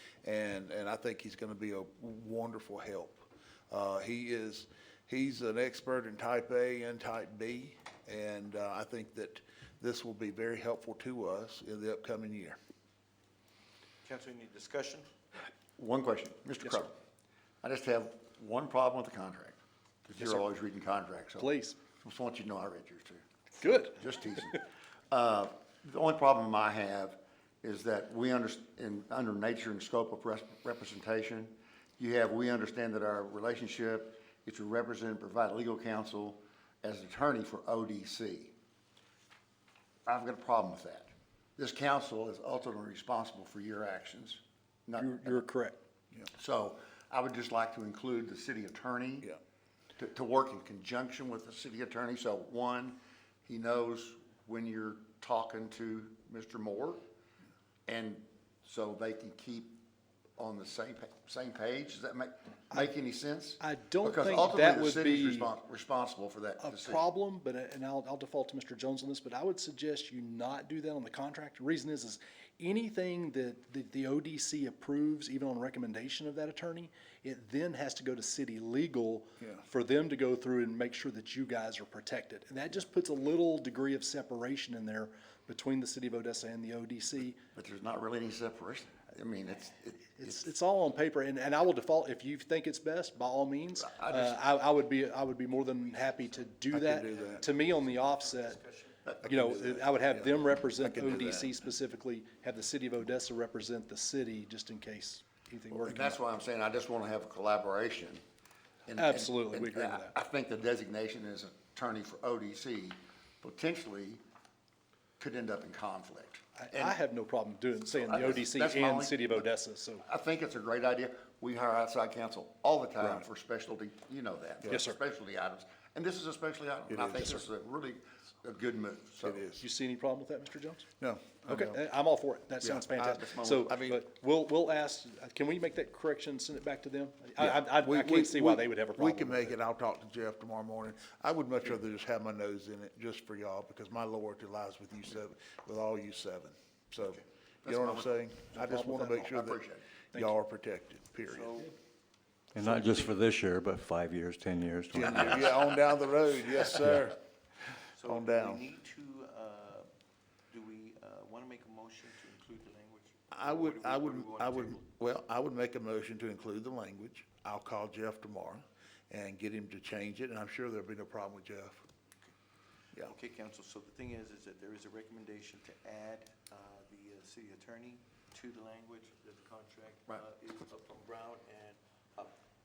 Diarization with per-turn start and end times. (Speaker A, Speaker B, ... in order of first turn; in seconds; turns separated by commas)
Speaker A: 0.2-12.6, Speaker B: 14.0-15.1, Speaker C: 15.8-16.9, Speaker C: 17.6-38.5, Speaker D: 20.1-20.4, Speaker D: 21.4-21.8, Speaker D: 23.6-24.0, Speaker C: 40.0-45.4, Speaker D: 45.0-45.8, Speaker C: 46.3-49.3, Speaker C: 50.0-57.0, Speaker C: 57.9-59.8, Speaker C: 60.4-67.0, Speaker D: 63.6-65.5, Speaker D: 66.6-87.4, Speaker A: 79.4-79.6, Speaker C: 87.5-90.4, Speaker D: 90.2-98.6, Speaker C: 93.8-94.4, Speaker A: 96.7-97.5, Speaker B: 97.1-99.1, Speaker D: 99.2-106.2, Speaker A: 99.2-101.5, Speaker C: 105.7-108.2, Speaker C: 108.8-114.2, Speaker D: 109.0-110.1, Speaker C: 115.2-116.9, Speaker D: 116.6-120.0, Speaker C: 118.0-119.5, Speaker C: 120.0-129.4, Speaker D: 124.7-125.0, Speaker A: 126.9-127.4, Speaker A: 129.2-129.7, Speaker D: 129.6-130.9, Speaker A: 131.0-131.8, Speaker D: 131.4-139.5, Speaker A: 132.6-134.0, Speaker C: 133.1-133.7, Speaker A: 137.4-149.6, Speaker C: 147.2-149.8, Speaker D: 148.5-149.2, Speaker A: 150.1-151.6, Speaker B: 151.2-151.8, Speaker E: 152.5-155.4, Speaker B: 152.6-153.1, Speaker A: 154.9-157.2, Speaker B: 157.9-159.9, Speaker A: 158.0-158.6, Speaker B: 160.5-164.8, Speaker A: 163.3-171.8, Speaker B: 172.9-182.3